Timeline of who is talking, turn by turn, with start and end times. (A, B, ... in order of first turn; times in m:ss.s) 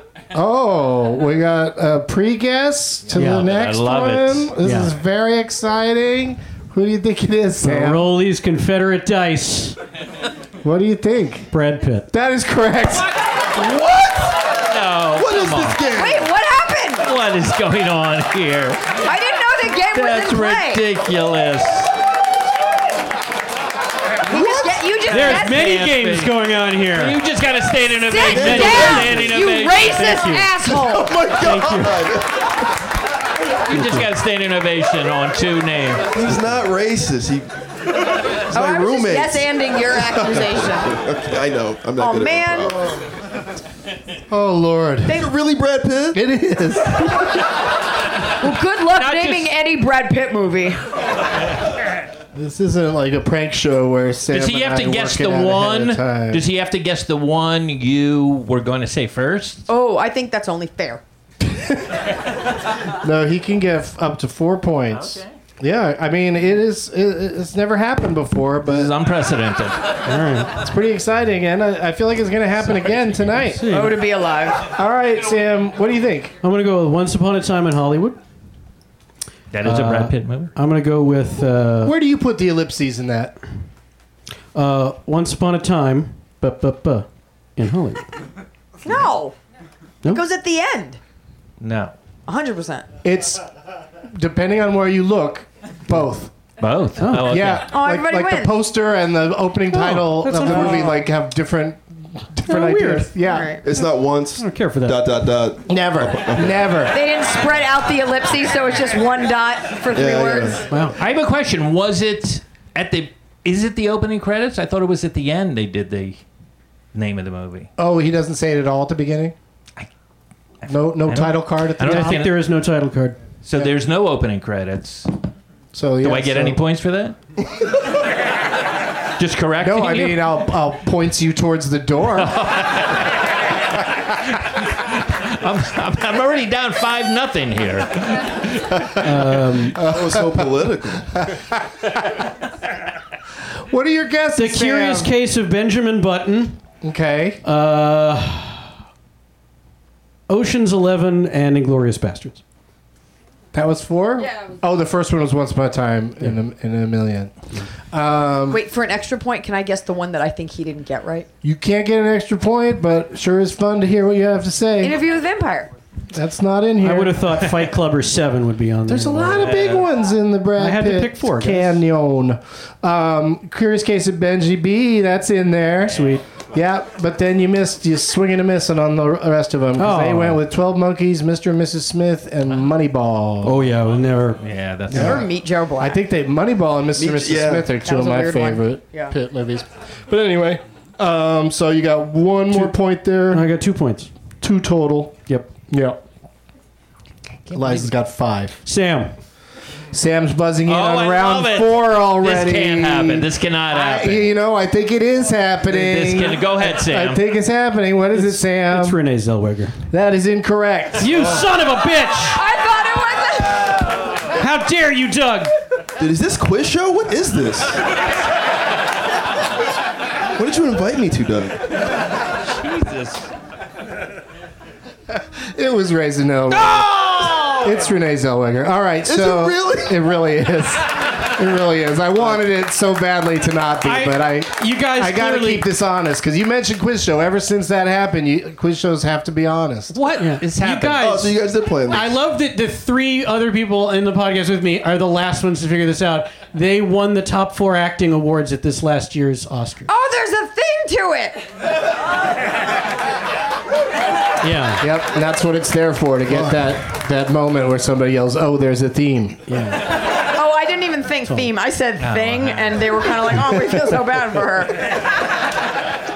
0:00.3-0:08.1 A
0:03.1-0:04.5 B
0:03.1-0:03.5 C
0:04.6-0:04.9 C
0:07.6-0:09.8 C
0:10.6-0:11.5 A
0:11.5-0:12.1 C
0:12.1-0:13.1 A
0:13.6-0:14.4 D
0:14.4-0:15.8 B
0:15.2-0:16.3 D
0:15.9-0:17.1 E
0:17.0-0:19.0 B
0:19.0-0:20.8 E
0:19.9-0:21.9 B
0:24.3-0:24.8 D
0:24.3-0:25.8 E
0:25.1-0:27.2 C
0:25.1-0:26.4 B
0:26.9-0:30.2 B
0:28.0-0:31.1 E
0:28.3-0:29.1 C
0:28.3-0:29.3 D
0:29.9-0:30.6 C
0:30.6-0:32.6 D
0:31.4-0:32.1 C
0:33.6-0:36.1 B
0:33.7-0:34.1 C
0:36.1-0:37.5 D
0:38.3-0:43.0 D
0:38.5-0:41.0 E
0:42.0-0:42.8 E
0:44.3-0:45.3 A
0:45.1-0:46.2 D
0:46.1-0:47.3 A
0:48.4-0:50.8 E
0:49.0-0:49.5 B
0:52.3-0:56.4 A
0:54.3-0:59.6 B
0:59.7-1:01.0 E
1:01.4-1:02.1 A
1:02.9-1:08.9 A
1:04.9-1:05.3 B
1:08.7-1:09.9 B
1:10.0-1:10.6 C
1:10.6-1:13.6 A
1:13.4-1:14.1 C
1:13.7-1:14.7 E
1:14.7-1:16.4 A
1:16.4-1:18.2 C
1:19.5-1:20.5 B
1:19.6-1:22.0 C
1:21.8-1:23.4 A
1:24.5-1:28.0 C
1:28.8-1:29.4 E
1:30.1-1:31.0 E
1:31.6-1:31.9 B
1:32.3-1:32.9 E
1:33.0-1:33.4 A
1:34.0-1:36.3 A
1:36.6-1:37.7 B
1:37.0-1:37.5 C
1:37.1-1:43.5 A
1:37.6-1:38.5 E
1:39.7-1:40.9 C
1:40.4-1:41.0 E
1:42.5-1:43.1 C
1:43.2-1:43.6 E
1:43.6-1:46.7 D
1:44.4-1:45.0 C
1:45.7-1:47.0 A
1:46.9-1:50.6 E
1:49.9-1:50.6 D
1:50.7-1:51.0 C
1:51.0-1:56.2 B
1:56.9-1:57.7 B
1:57.8-1:59.3 A
2:00.6-2:02.4 B
2:00.6-2:02.3 A
2:01.8-2:03.2 C
2:03.4-2:05.1 B
2:05.7-2:06.6 A
2:06.0-2:07.2 B
2:09.2-2:10.3 B
2:09.6-2:12.4 A
2:12.2-2:13.2 B
2:14.0-2:18.9 B
2:18.7-2:20.5 A
2:19.0-2:19.8 C
2:19.8-2:21.1 D
2:21.1-2:22.2 A
2:23.5-2:25.1 A
2:24.4-2:26.6 C
2:26.8-2:27.4 A
2:27.4-2:28.7 C
2:30.3-2:32.4 C
2:33.5-2:37.3 A
2:37.9-2:38.6 A
2:38.5-2:41.3 E
2:41.4-2:45.0 A
2:44.8-2:45.7 E
2:46.1-2:47.4 A
2:46.8-2:49.5 C
2:48.9-3:03.6 A
2:49.5-2:49.9 B
2:50.6-2:51.8 C
2:59.8-3:00.4 C
3:03.4-3:04.4 C
3:04.4-3:05.2 B
3:04.9-3:05.2 A
3:04.9-3:06.0 E
3:05.8-3:13.5 A
3:07.0-3:07.7 D
3:07.8-3:09.2 E
3:13.3-3:14.1 C
3:14.4-3:16.0 A
3:15.3-3:15.5 C
3:17.5-3:17.9 B
3:17.5-3:18.6 A
3:18.6-3:19.1 C
3:19.9-3:29.0 A
3:20.6-3:24.3 B
3:25.7-3:27.2 B
3:28.1-3:29.8 C
3:29.9-3:31.2 A
3:31.0-3:32.4 C
3:32.2-3:33.8 E
3:34.3-3:35.5 C
3:36.0-3:37.8 D
3:40.4-3:41.7 D
3:42.5-3:43.3 B
3:45.1-3:46.9 A
3:46.7-3:47.6 C
3:47.5-4:01.1 A
3:49.0-3:50.0 D
3:53.8-3:55.6 C
3:59.9-4:09.9 C
4:01.0-4:02.2 D
4:09.9-4:11.5 E
4:14.4-4:14.8 C
4:14.8-4:19.4 A
4:19.5-4:19.8 C
4:20.3-4:24.8 E
4:22.0-4:23.0 B